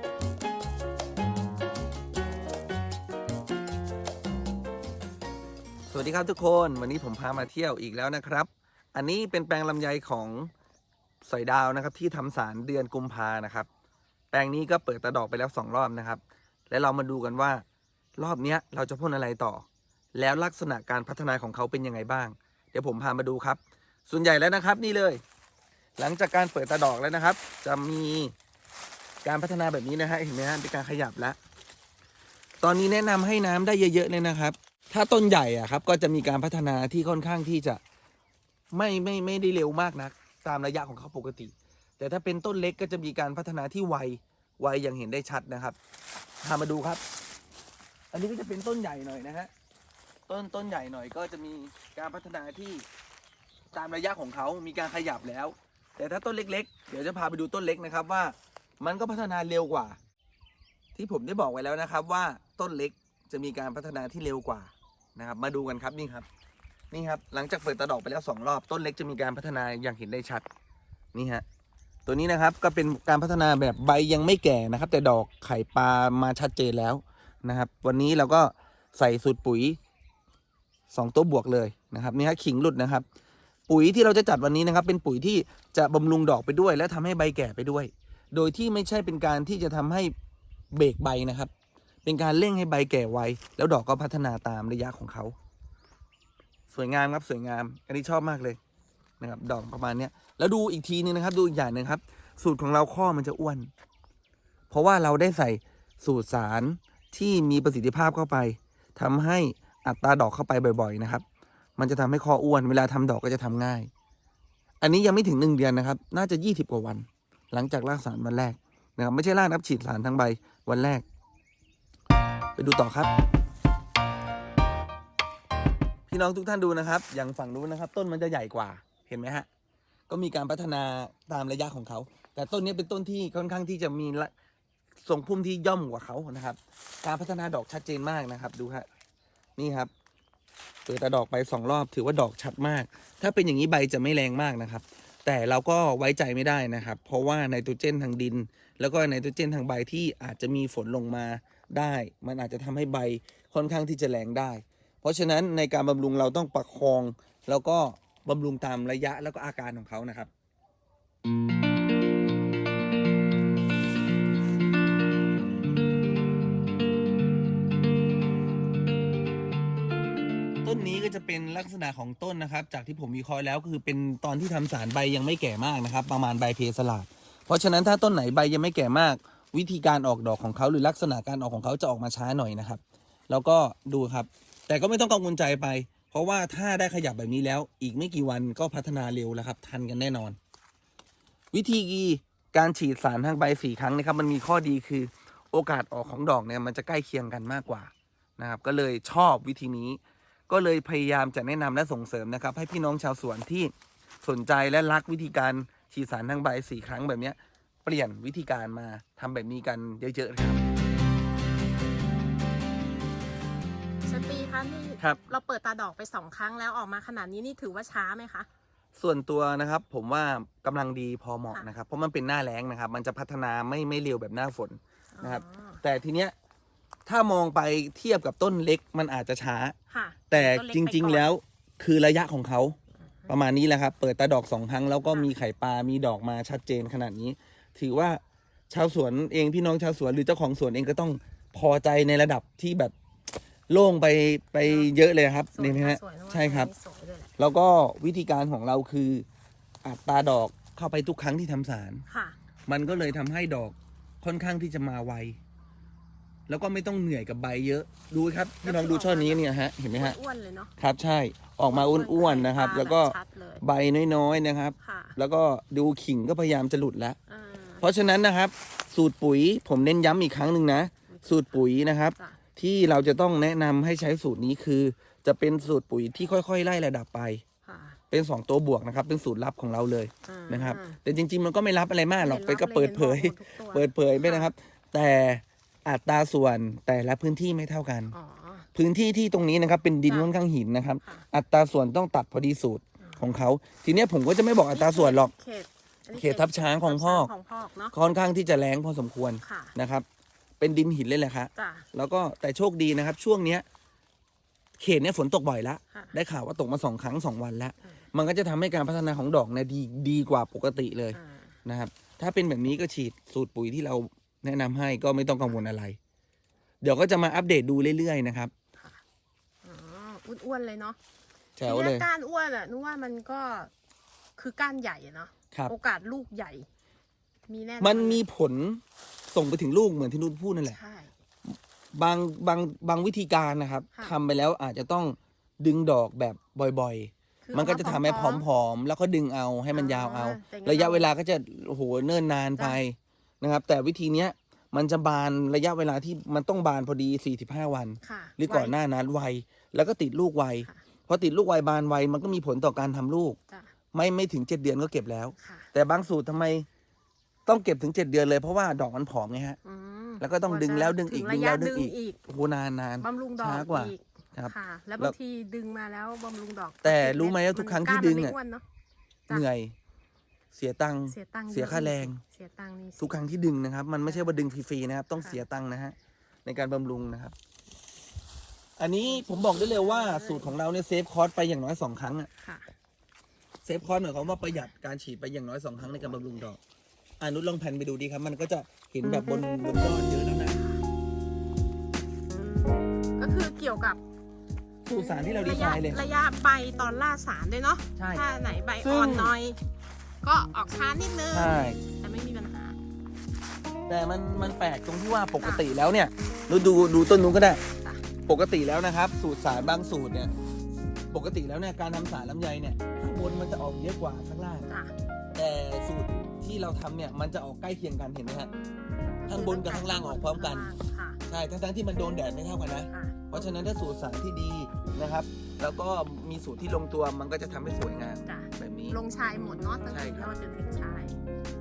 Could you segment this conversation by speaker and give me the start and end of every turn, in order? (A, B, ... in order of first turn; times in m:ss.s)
0:05.9-0:10.5 A
0:11.2-0:13.7 A
0:14.3-0:17.6 A
0:18.2-0:25.2 A
0:26.0-0:28.3 A
0:29.2-0:31.4 A
0:32.6-0:37.8 A
0:38.7-0:45.8 A
0:46.4-0:47.0 A
0:48.1-0:49.5 A
0:50.3-0:52.8 A
0:53.7-1:00.0 A
1:00.9-1:06.3 A
1:06.9-1:10.5 A
1:11.1-1:11.4 A
1:12.0-1:19.8 A
1:20.9-1:23.0 A
1:23.7-1:30.1 A
1:30.7-1:31.5 A
1:32.0-1:35.3 A
1:36.7-1:38.6 A
1:39.2-1:43.7 A
1:44.7-1:51.2 A
1:51.8-1:53.9 A
1:54.8-2:01.0 A
2:02.6-2:03.1 A
2:06.1-2:09.5 A
2:10.1-2:14.3 A
2:15.0-2:18.9 A
2:19.6-2:19.9 A
2:20.8-2:40.3 A
2:50.6-3:10.4 A
3:11.5-3:30.6 A
3:34.0-3:38.5 B
3:39.0-3:46.3 A
3:45.1-3:45.8 B
3:47.0-3:49.8 A
3:49.9-3:51.3 B
3:50.3-3:52.8 A
3:53.3-4:02.9 A
4:03.7-4:06.7 A
4:04.6-4:04.9 B
4:05.5-4:07.3 B
4:07.4-4:09.2 A
4:09.8-4:12.0 A
4:12.1-4:12.4 B
4:12.7-4:15.4 A
4:16.5-4:20.2 A
4:18.6-4:20.7 B
4:20.8-4:27.2 A
4:21.7-4:23.6 B
4:24.8-4:25.2 B
4:27.3-4:27.9 B
4:27.8-4:37.4 A
4:31.1-4:32.4 B
4:37.6-4:38.0 B
4:38.1-4:48.1 A
4:40.2-4:41.0 B
4:42.2-4:44.5 B
4:48.1-4:48.7 B
4:48.7-4:55.3 A
4:50.1-4:50.3 B
4:53.0-4:53.2 B
4:54.7-4:57.9 B
4:56.1-4:57.3 A
4:57.9-5:00.0 A
4:59.4-4:59.7 B
5:00.6-5:03.6 A
5:01.5-5:01.9 B
5:04.8-5:16.0 A
5:11.1-5:11.5 B
5:16.8-5:18.5 A
5:18.8-5:19.0 B
5:19.6-5:21.0 B
5:21.6-5:22.0 A
5:21.6-5:23.7 B
5:24.4-5:26.7 B
5:27.5-5:28.2 B
5:27.8-5:30.8 A
5:30.7-5:31.1 B
5:31.5-5:53.4 A
5:37.4-5:38.4 B
5:39.7-5:41.1 B
5:48.0-5:48.8 B
5:53.9-5:56.7 A
5:55.4-5:55.7 B
5:57.4-5:59.6 A
5:59.6-6:02.2 B
6:00.2-6:05.1 A
6:03.0-6:08.6 B
6:06.8-6:08.4 A
6:09.3-6:09.8 A
6:10.5-6:12.2 A
6:11.1-6:13.2 B
6:13.0-6:17.3 A
6:14.0-6:14.3 B
6:15.1-6:15.4 B
6:18.8-6:22.3 A
6:19.0-6:20.6 B
6:22.4-6:22.7 B
6:23.6-6:26.6 A
6:27.2-6:30.6 A
6:29.0-6:29.4 B
6:30.5-6:30.8 B
6:33.2-6:34.0 B
6:34.8-6:36.0 A
6:35.0-6:39.6 B
6:38.0-6:38.2 A
6:38.8-6:39.3 A
6:40.2-6:42.8 B
6:41.3-6:41.8 A
6:43.9-6:47.6 A
6:48.2-6:50.3 A
6:51.1-6:54.7 A
6:54.7-6:54.9 B
6:55.3-6:58.5 A
6:59.2-7:01.2 B
6:59.3-7:00.7 A
7:01.3-7:09.0 A
7:02.9-7:03.5 B
7:08.2-7:11.2 B
7:09.9-7:10.3 A